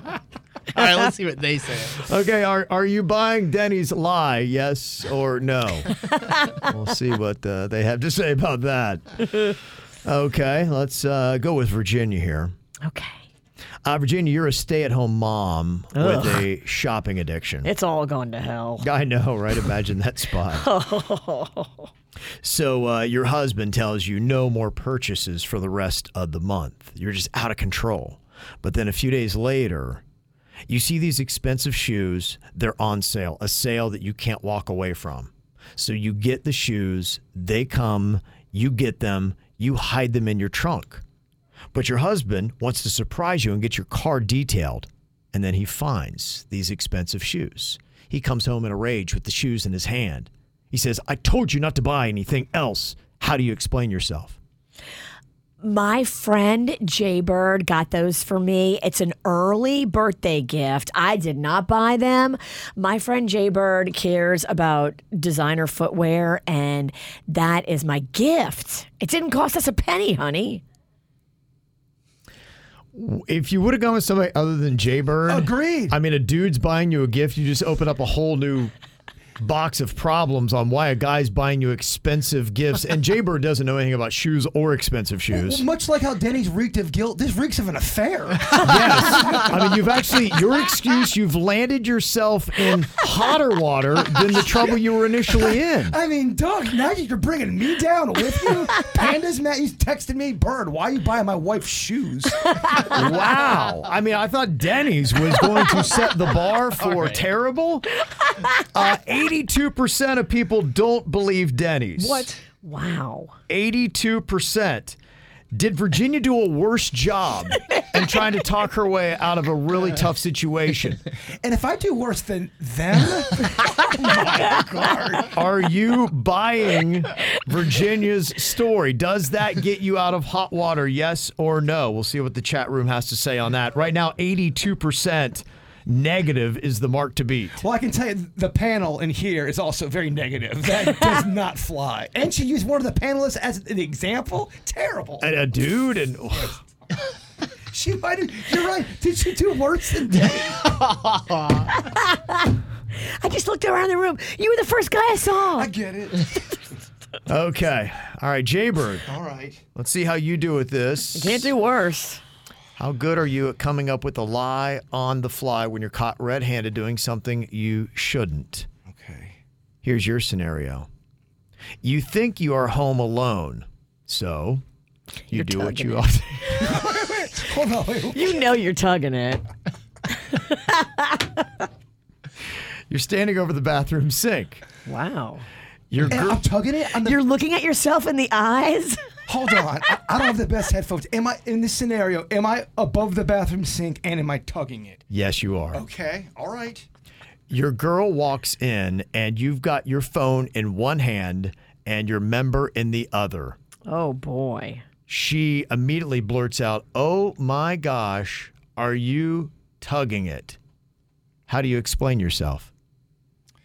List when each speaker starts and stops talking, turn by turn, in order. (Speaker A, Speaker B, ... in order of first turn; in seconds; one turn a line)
Speaker A: 0.7-2.0
Speaker B: 2.0-5.9
Speaker B: 6.6-12.5
Speaker C: 12.8-13.2
Speaker B: 13.8-17.7
Speaker C: 15.9-16.5
Speaker C: 17.6-18.9
Speaker B: 18.8-20.6
Speaker C: 20.5-21.9
Speaker B: 22.4-30.0
Speaker B: 30.7-41.0
Speaker B: 41.7-54.4
Speaker C: 55.6-70.6
Speaker B: 72.9-78.7
Speaker D: 75.3-75.9
Speaker B: 79.4-85.6
Speaker D: 85.3-89.5
Speaker B: 88.6-96.0
Speaker D: 95.3-102.5
Speaker B: 102.8-107.9
Speaker A: 106.8-107.2
Speaker B: 108.7-112.3
Speaker C: 112.0-113.3
Speaker B: 113.5-115.0
Speaker B: 115.5-121.0
Speaker D: 121.4-125.3
Speaker B: 125.3-137.6
Speaker D: 137.6-145.2
Speaker B: 145.2-146.6
Speaker D: 147.7-150.7
Speaker A: 151.1-151.4
Speaker C: 151.7-152.3
Speaker C: 152.9-155.7
Speaker D: 155.6-156.4
Speaker B: 157.3-159.1
Speaker D: 159.1-159.6
Speaker B: 159.7-161.5
Speaker C: 161.1-162.2
Speaker B: 162.8-168.7
Speaker D: 168.9-169.4
Speaker B: 169.8-170.9
Speaker B: 171.8-174.6
Speaker C: 175.3-176.2
Speaker B: 175.3-176.7
Speaker D: 176.6-178.3
Speaker C: 178.1-179.5
Speaker C: 180.3-181.2
Speaker B: 182.9-184.6
Speaker C: 184.8-185.4
Speaker B: 185.9-186.4
Speaker D: 186.1-187.2
Speaker C: 187.0-189.0
Speaker D: 189.3-195.0
Speaker B: 195.1-195.8
Speaker D: 195.7-196.8
Speaker B: 197.5-203.6
Speaker C: 203.9-204.8
Speaker B: 205.1-210.6
Speaker B: 211.5-212.7